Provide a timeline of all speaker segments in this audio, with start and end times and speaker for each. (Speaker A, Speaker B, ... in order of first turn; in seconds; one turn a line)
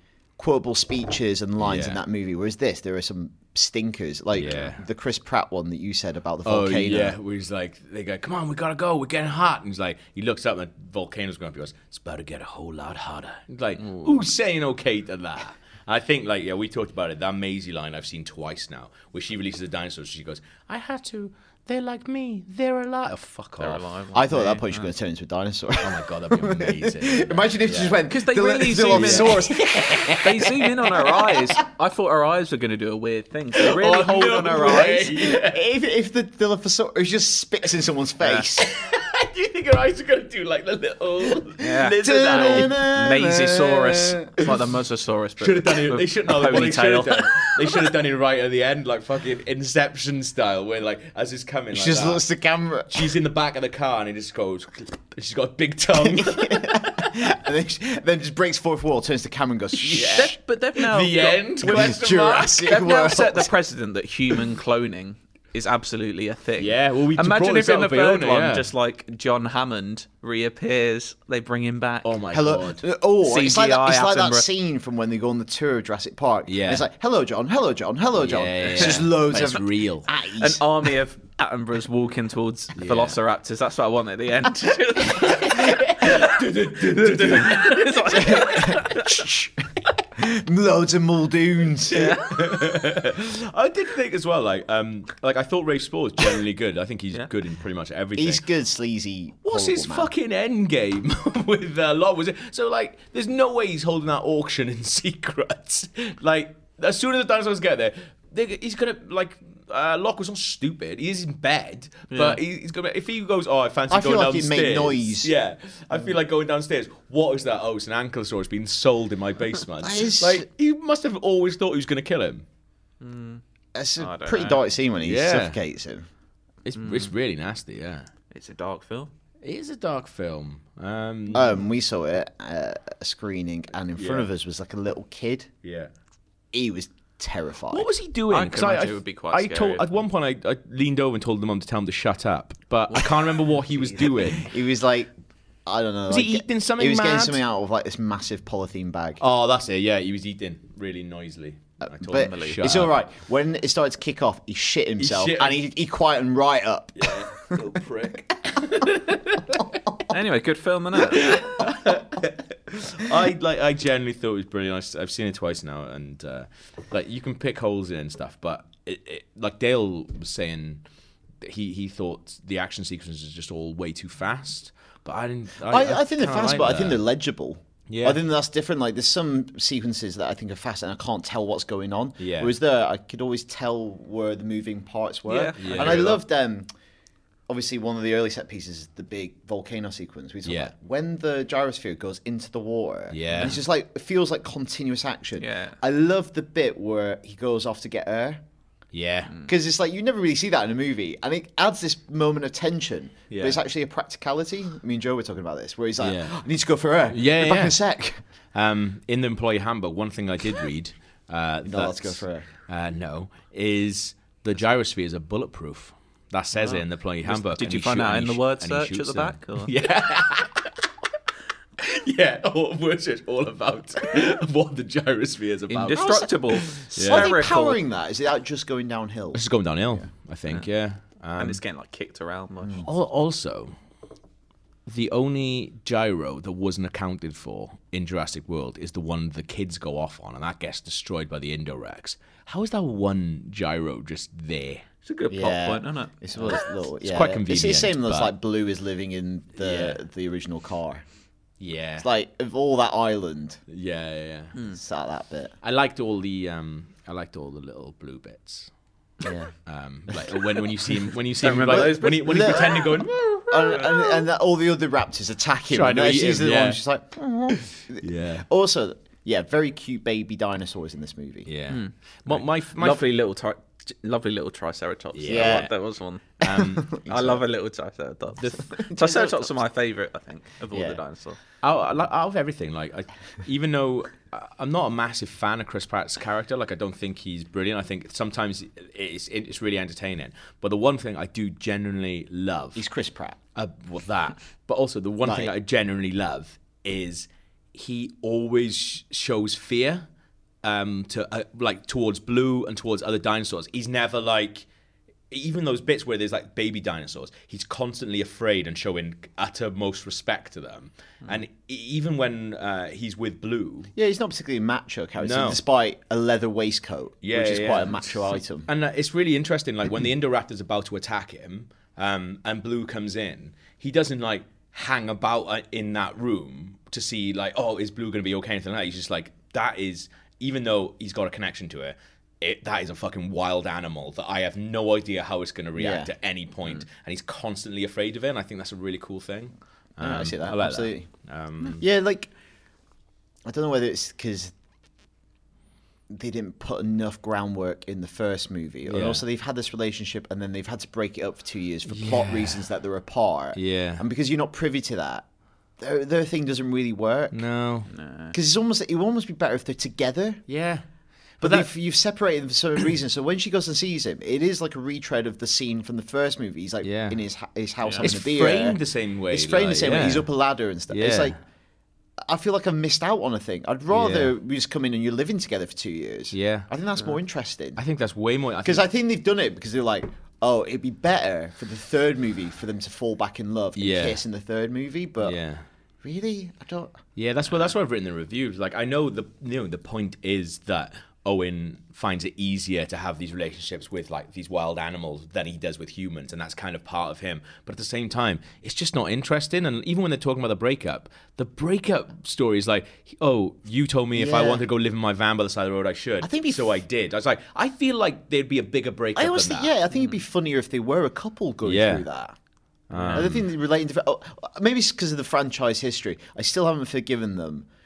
Speaker A: 0.4-7.2
Speaker B: 1.6-2.0
Speaker B: 4.3-4.8
Speaker B: 6.4-23.8
Speaker C: 13.8-14.1
Speaker C: 23.6-24.9
Speaker A: 24.1-30.3
Speaker B: 25.8-28.0
Speaker C: 28.1-29.5
Speaker B: 28.9-30.6
Speaker C: 30.2-35.1
Speaker B: 33.6-35.6
Speaker A: 34.6-38.7
Speaker B: 38.6-42.8
Speaker C: 41.6-47.5
Speaker A: 42.0-44.5
Speaker B: 45.4-52.2
Speaker A: 51.7-53.1
Speaker B: 52.9-57.0
Speaker A: 56.0-60.4
Speaker B: 59.9-62.7
Speaker C: 59.9-72.2
Speaker A: 61.6-63.5
Speaker B: 66.6-68.7
Speaker B: 72.0-72.8
Speaker A: 72.3-80.6
Speaker C: 73.2-74.5
Speaker B: 76.5-76.9
Speaker B: 78.1-80.1
Speaker C: 78.6-79.0
Speaker C: 80.4-89.2
Speaker B: 82.8-83.2
Speaker B: 85.1-88.3
Speaker A: 88.1-92.2
Speaker C: 91.9-92.8
Speaker B: 91.9-98.5
Speaker A: 98.2-100.1
Speaker B: 99.4-122.4
Speaker C: 112.1-112.4
Speaker A: 113.9-115.3
Speaker A: 119.8-120.5
Speaker C: 123.0-123.4
Speaker A: 123.7-126.0
Speaker C: 124.0-124.6
Speaker B: 125.0-125.6
Speaker B: 126.6-128.1
Speaker C: 126.8-127.1
Speaker C: 128.3-129.1
Speaker B: 129.4-131.5
Speaker A: 131.3-135.5
Speaker B: 133.9-134.3
Speaker B: 135.6-135.9
Speaker A: 136.5-137.9
Speaker B: 137.7-144.5
Speaker C: 138.3-139.8
Speaker A: 144.0-145.1
Speaker A: 145.7-149.2
Speaker B: 146.1-147.4
Speaker B: 149.2-152.9
Speaker A: 152.0-157.6
Speaker C: 152.1-152.6
Speaker B: 155.0-155.6
Speaker B: 156.9-159.7
Speaker C: 160.1-161.7
Speaker B: 161.0-170.8
Speaker B: 171.4-177.0
Speaker A: 175.6-186.7
Speaker B: 177.9-178.2
Speaker B: 182.2-182.5
Speaker C: 185.3-186.2
Speaker B: 185.6-186.2
Speaker A: 187.5-198.4
Speaker B: 190.4-190.7
Speaker B: 193.1-193.6
Speaker C: 195.4-195.8
Speaker B: 198.9-199.3
Speaker A: 199.4-208.2
Speaker B: 203.3-203.6
Speaker B: 206.0-206.4
Speaker B: 207.1-207.8
Speaker B: 208.5-220.8
Speaker A: 211.6-212.5
Speaker C: 216.6-219.7
Speaker B: 221.8-227.3
Speaker C: 225.7-227.8
Speaker A: 225.9-226.3
Speaker A: 226.9-230.0
Speaker B: 229.3-231.6
Speaker C: 231.4-232.9
Speaker B: 232.8-233.7
Speaker B: 234.9-244.9
Speaker C: 245.1-246.6
Speaker A: 245.3-251.0
Speaker B: 247.0-248.3
Speaker B: 249.6-250.0
Speaker B: 251.6-252.1
Speaker A: 252.0-253.6
Speaker B: 253.7-254.5
Speaker A: 254.7-255.5
Speaker B: 255.6-258.7
Speaker A: 259.2-259.5
Speaker B: 259.7-263.2
Speaker A: 260.1-271.5
Speaker C: 261.4-262.8
Speaker B: 265.7-266.8
Speaker B: 267.5-268.4
Speaker B: 271.4-273.0
Speaker C: 271.7-276.2
Speaker B: 275.1-275.7
Speaker A: 275.3-275.7
Speaker B: 276.4-277.4
Speaker A: 276.4-277.1
Speaker C: 277.1-281.4
Speaker A: 278.7-279.3
Speaker A: 280.7-281.0
Speaker B: 281.6-292.9
Speaker A: 292.8-293.4
Speaker B: 293.5-300.1
Speaker A: 295.2-295.5
Speaker B: 300.6-304.7
Speaker B: 305.3-313.9
Speaker A: 313.9-318.7
Speaker B: 315.2-315.6
Speaker B: 317.2-341.8
Speaker A: 335.8-336.1
Speaker A: 340.0-341.1
Speaker A: 341.7-342.3
Speaker A: 343.4-344.5
Speaker A: 346.1-355.2
Speaker B: 348.8-349.2
Speaker B: 351.9-352.6
Speaker B: 353.5-354.0
Speaker A: 355.8-357.4
Speaker B: 357.3-357.9
Speaker C: 357.9-358.4
Speaker A: 358.3-360.4
Speaker B: 360.5-360.8
Speaker B: 361.4-361.7
Speaker A: 361.4-371.4
Speaker B: 366.8-367.2
Speaker C: 367.8-368.1
Speaker B: 368.0-370.3
Speaker B: 370.9-371.4
Speaker A: 372.2-377.8
Speaker B: 373.9-374.3
Speaker B: 376.3-376.7
Speaker B: 377.8-378.9
Speaker A: 378.6-385.4
Speaker B: 383.8-384.2
Speaker B: 385.2-385.6
Speaker A: 386.0-387.0
Speaker B: 387.1-409.7
Speaker A: 404.1-404.6
Speaker A: 406.2-406.7
Speaker A: 409.1-412.4
Speaker B: 411.6-412.1
Speaker B: 412.9-413.5
Speaker A: 413.1-417.7